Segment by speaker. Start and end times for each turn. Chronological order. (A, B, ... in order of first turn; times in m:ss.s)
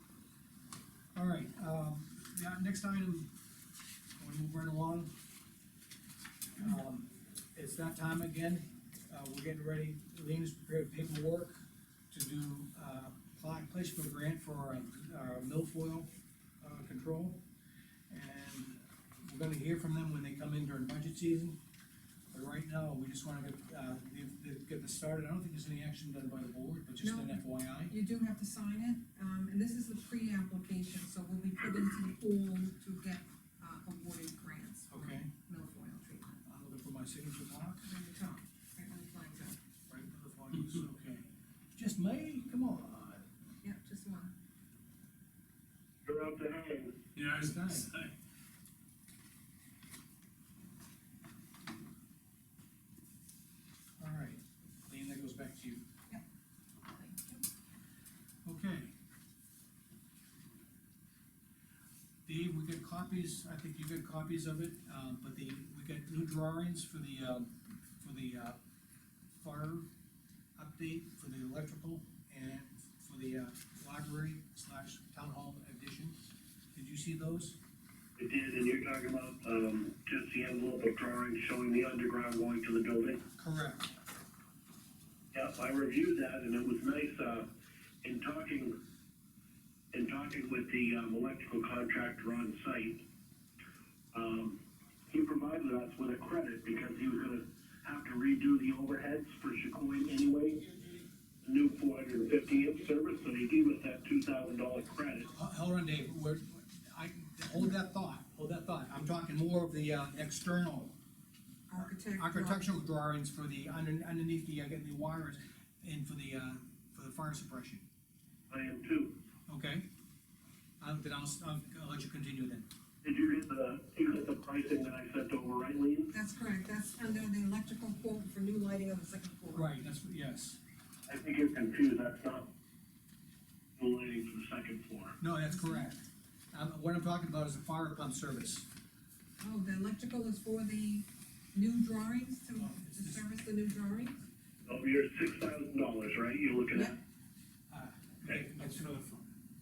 0:01.1-0:03.3 A
0:04.2-0:05.1 A
0:06.6-0:17.4 A
0:18.1-0:21.6 A
0:22.3-0:27.9 A
0:27.0-0:36.4 B
0:34.9-0:35.3 A
0:36.4-0:37.8 A
0:37.8-0:39.6 B
0:39.9-0:43.2 A
0:43.6-0:44.3 B
0:46.0-0:47.0 C
0:47.2-0:47.9 A
0:47.2-0:48.1 D
0:54.0-0:55.8 A
0:56.8-0:57.4 B
0:58.4-0:58.9 A
1:02.2-1:08.6 A
1:09.4-1:09.9 A
1:10.6-1:17.6 A
1:18.2-1:23.2 C
1:23.4-1:23.9 A
1:25.3-1:27.5 C
1:28.0-1:28.8 C
1:29.9-1:33.0 C
1:34.1-1:40.7 C
1:41.4-1:45.3 C
1:45.3-1:51.0 A
1:51.7-1:52.7 B
1:51.8-1:57.8 A
1:58.5-1:59.2 C
1:59.5-1:59.8 A
2:00.8-2:02.6 A
2:03.0-2:06.1 C
2:06.1-2:09.7 B
2:09.5-2:10.6 A
2:11.1-2:12.5 C
2:13.8-2:15.2 C
2:15.2-2:18.7 A
2:15.5-2:15.9 B
2:19.4-2:24.2 B
2:22.6-2:23.2 A
2:24.6-2:27.0 C
2:27.7-2:29.0 A
2:28.2-2:29.2 D